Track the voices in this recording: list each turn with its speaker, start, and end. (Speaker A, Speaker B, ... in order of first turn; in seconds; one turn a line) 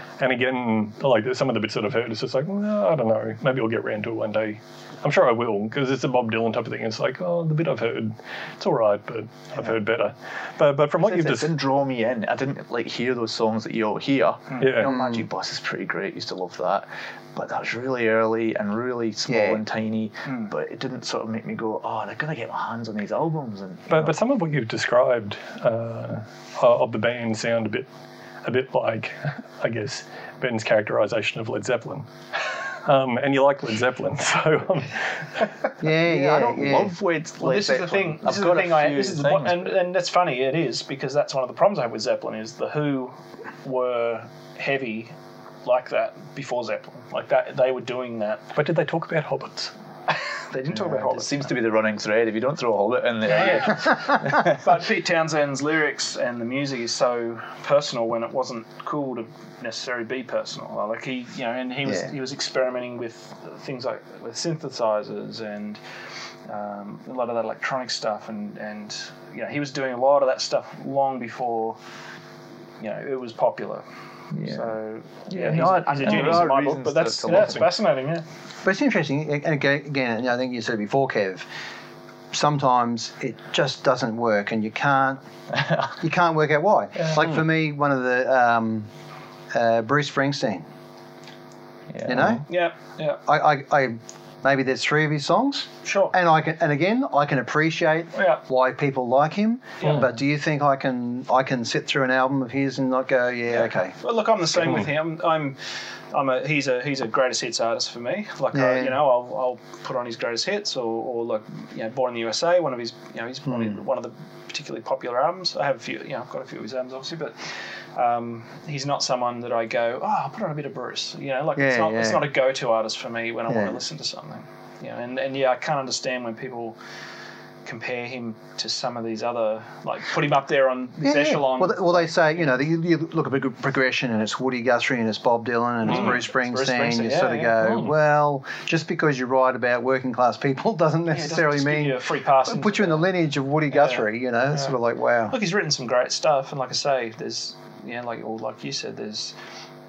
Speaker A: 0.2-11.5
Speaker B: 11.0-24.1
Speaker C: 14.5-14.8
Speaker A: 14.6-14.9
Speaker D: 14.8-15.3
Speaker D: 19.3-19.6
Speaker C: 20.2-20.5
Speaker A: 23.9-27.9
Speaker A: 28.4-32.1
Speaker A: 32.7-35.5
Speaker D: 35.8-36.9
Speaker B: 35.9-39.7
Speaker C: 37.4-45.1
Speaker C: 45.6-48.4
Speaker A: 48.5-49.7
Speaker C: 50.1-51.5
Speaker B: 50.7-54.8
Speaker C: 53.2-65.8
Speaker C: 66.5-71.8
Speaker C: 72.8-73.8
Speaker B: 74.3-74.7
Speaker C: 74.4-78.2
Speaker B: 75.3-77.7
Speaker A: 76.0-76.4
Speaker A: 77.3-77.6
Speaker D: 78.6-81.5
Speaker D: 82.3-85.2
Speaker B: 85.5-85.9
Speaker D: 86.0-88.9
Speaker D: 89.5-90.6
Speaker B: 91.9-92.3
Speaker D: 92.0-92.4
Speaker A: 92.1-92.4
Speaker C: 92.5-93.2
Speaker D: 93.3-103.9
Speaker C: 95.8-96.1
Speaker C: 98.1-98.4
Speaker C: 99.8-100.1
Speaker C: 103.7-105.6
Speaker C: 106.1-117.4
Speaker D: 108.5-109.0
Speaker D: 113.5-113.8
Speaker C: 117.9-126.8
Speaker D: 121.6-122.3
Speaker D: 123.5-123.8
Speaker C: 127.6-132.2
Speaker D: 131.0-145.3
Speaker C: 135.8-137.6
Speaker A: 137.6-137.9
Speaker C: 141.1-143.1
Speaker C: 143.7-144.8
Speaker C: 145.3-149.3